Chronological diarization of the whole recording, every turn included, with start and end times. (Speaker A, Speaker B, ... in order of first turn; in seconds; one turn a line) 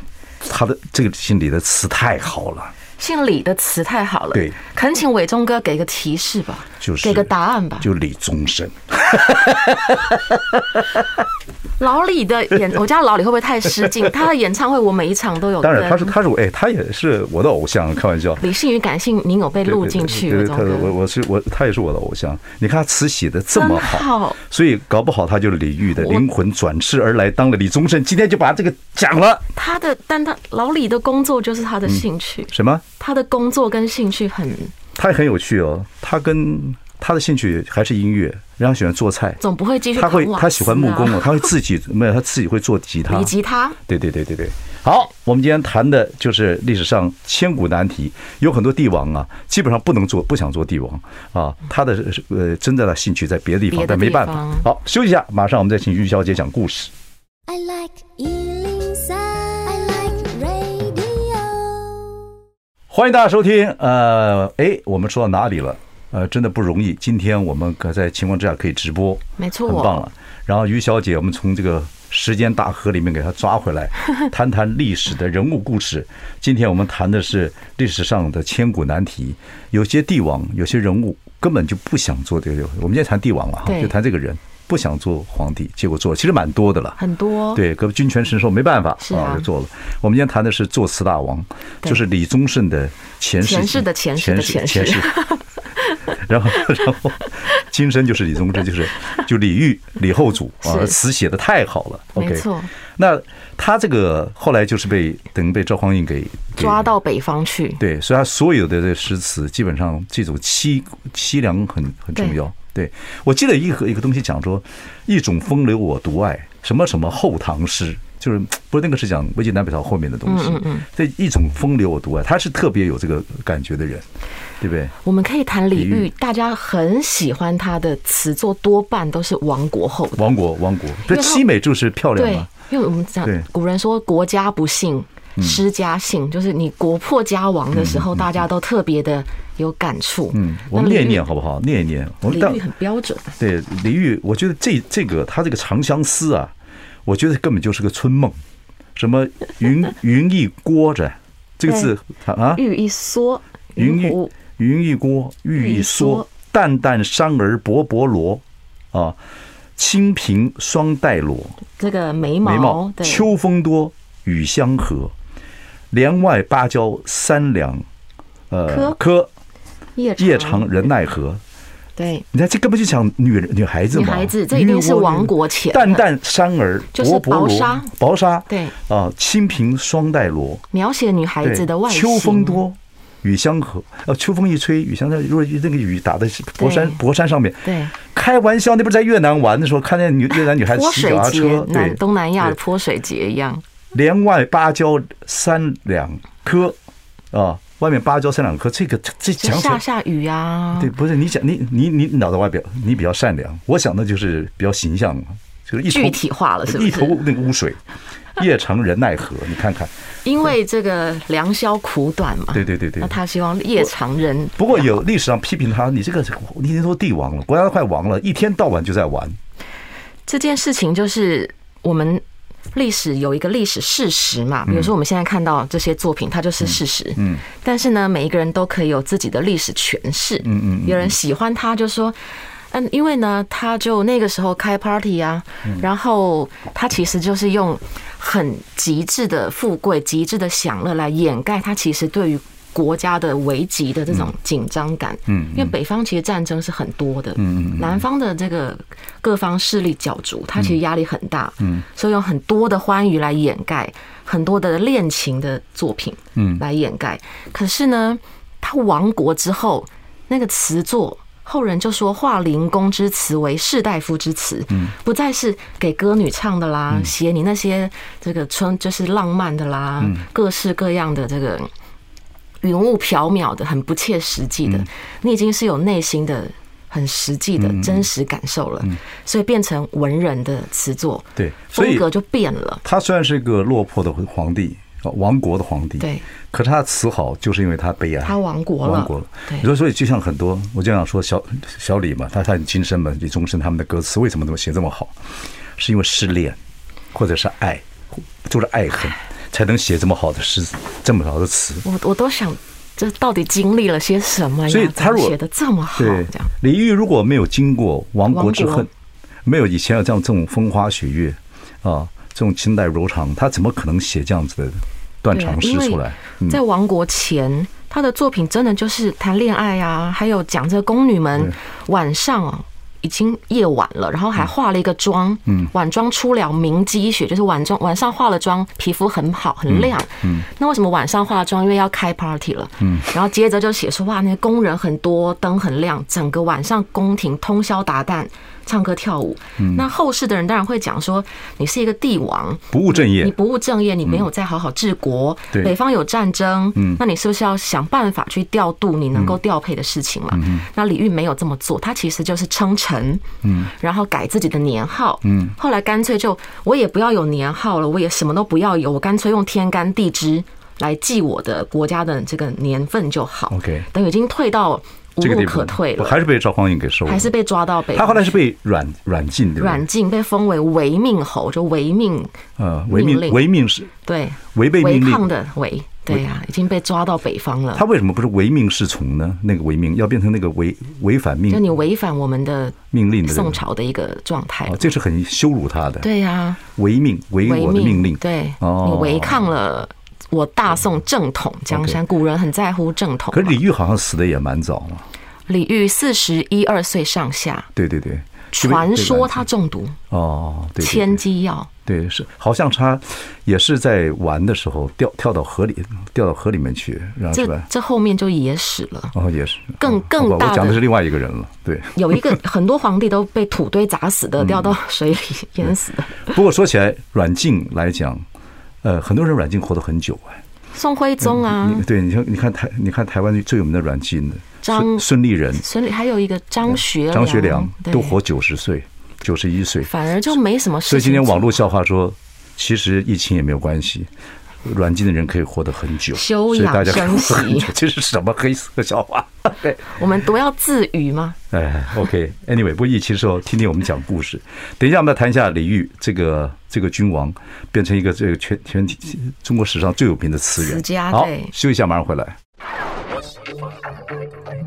Speaker A: 0.4-2.7
Speaker B: 3.0-7.9
Speaker A: 6.8-11.1
Speaker B: 11.8-16.1
Speaker A: 15.6-18.4
Speaker B: 18.4-20.9
Speaker A: 19.6-29.4
Speaker B: 23.5-24.4
Speaker B: 26.0-26.2
Speaker B: 29.6-34.7
Speaker A: 31.9-32.8
Speaker A: 35.0-39.4
Speaker B: 39.4-41.5
Speaker A: 40.0-43.3
Speaker B: 43.1-43.8
Speaker A: 43.9-56.9
Speaker B: 53.7-54.7
Speaker C: 57.5-62.2
Speaker A: 62.9-87.0
Speaker B: 69.4-70.0
Speaker B: 83.6-83.9
Speaker B: 87.0-87.6
Speaker A: 87.5-95.2
Speaker B: 89.0-89.5
Speaker B: 93.4-95.4
Speaker A: 96.1-106.8
Speaker B: 100.6-101.0
Speaker B: 102.2-102.7
Speaker B: 106.6-107.8
Speaker A: 107.8-124.1
Speaker B: 120.3-120.9
Speaker A: 124.6-124.9
Speaker B: 125.0-130.2
Speaker A: 125.7-126.1
Speaker A: 130.2-132.5
Speaker B: 131.1-131.4
Speaker B: 132.2-141.3
Speaker A: 137.7-138.3
Speaker A: 140.3-142.6
Speaker B: 142.3-143.3
Speaker A: 143.4-146.5
Speaker A: 147.1-148.4
Speaker A: 149.0-152.6
Speaker B: 152.5-154.3
Speaker A: 153.8-159.2
Speaker B: 155.6-156.3
Speaker A: 159.8-161.6
Speaker B: 161.8-163.3
Speaker A: 162.4-165.1
Speaker A: 165.9-167.8
Speaker A: 168.5-169.3
Speaker B: 168.7-169.0
Speaker B: 170.0-170.9
Speaker A: 170.2-171.4
Speaker B: 172.0-172.2
Speaker A: 172.3-180.6
Speaker B: 173.9-176.1
Speaker B: 176.9-177.9
Speaker B: 178.5-178.7
Speaker B: 180.7-182.6
Speaker A: 181.4-192.6
Speaker B: 186.6-187.0
Speaker B: 187.6-187.9
Speaker B: 190.6-193.6
Speaker A: 193.9-196.8
Speaker A: 197.3-199.8
Speaker B: 199.4-200.9
Speaker A: 200.8-207.8
Speaker B: 205.9-207.2
Speaker A: 208.4-209.9
Speaker B: 210.2-215.0
Speaker A: 212.5-213.2
Speaker A: 214.6-219.4
Speaker B: 220.3-232.2
Speaker A: 224.7-224.9
Speaker A: 226.6-227.4
Speaker A: 230.4-231.2
Speaker B: 232.7-271.7
Speaker A: 245.3-245.7
Speaker A: 247.4-248.0
Speaker A: 256.4-256.6
Speaker B: 272.6-282.8
Speaker A: 277.6-278.1
Speaker A: 281.4-282.1
Speaker A: 282.8-295.1
Speaker B: 288.2-289.7
Speaker A: 295.8-296.6
Speaker A: 297.1-301.9
Speaker B: 301.8-306.5
Speaker A: 304.7-305.4
Speaker A: 306.0-308.9
Speaker B: 308.3-308.9
Speaker A: 309.4-316.6
Speaker B: 315.3-366.2
Speaker A: 329.7-330.5
Speaker A: 332.8-333.1
Speaker A: 339.6-339.9
Speaker A: 342.7-343.4
Speaker A: 350.3-350.6
Speaker A: 353.4-353.7
Speaker A: 355.3-355.5
Speaker A: 363.5-363.9
Speaker A: 365.2-367.3
Speaker B: 367.1-368.4
Speaker A: 367.9-369.9
Speaker B: 369.6-372.4
Speaker A: 372.6-373.9
Speaker B: 372.9-373.4
Speaker B: 374.1-377.9
Speaker A: 374.5-375.3
Speaker A: 377.7-381.7
Speaker B: 381.5-384.9
Speaker A: 382.9-383.6
Speaker A: 384.7-386.1
Speaker B: 386.0-386.6
Speaker A: 386.7-389.5
Speaker B: 387.4-393.6
Speaker A: 391.7-392.0
Speaker A: 393.3-395.1
Speaker B: 395.5-397.7
Speaker A: 397.8-399.4
Speaker B: 398.5-400.0
Speaker A: 400.1-401.2
Speaker B: 400.8-401.7
Speaker A: 401.9-407.7
Speaker B: 407.3-409.1
Speaker A: 409.1-412.4
Speaker B: 409.8-410.8
Speaker B: 411.9-416.4
Speaker A: 414.4-414.7
Speaker A: 416.3-418.3
Speaker A: 418.8-420.4
Speaker B: 420.7-421.9
Speaker A: 421.2-425.6
Speaker B: 424.6-428.2
Speaker A: 426.7-429.9
Speaker B: 429.8-431.6
Speaker A: 430.9-434.1
Speaker A: 434.6-439.8
Speaker B: 436.1-437.7
Speaker B: 439.9-441.4
Speaker A: 441.5-452.4
Speaker B: 450.6-451.5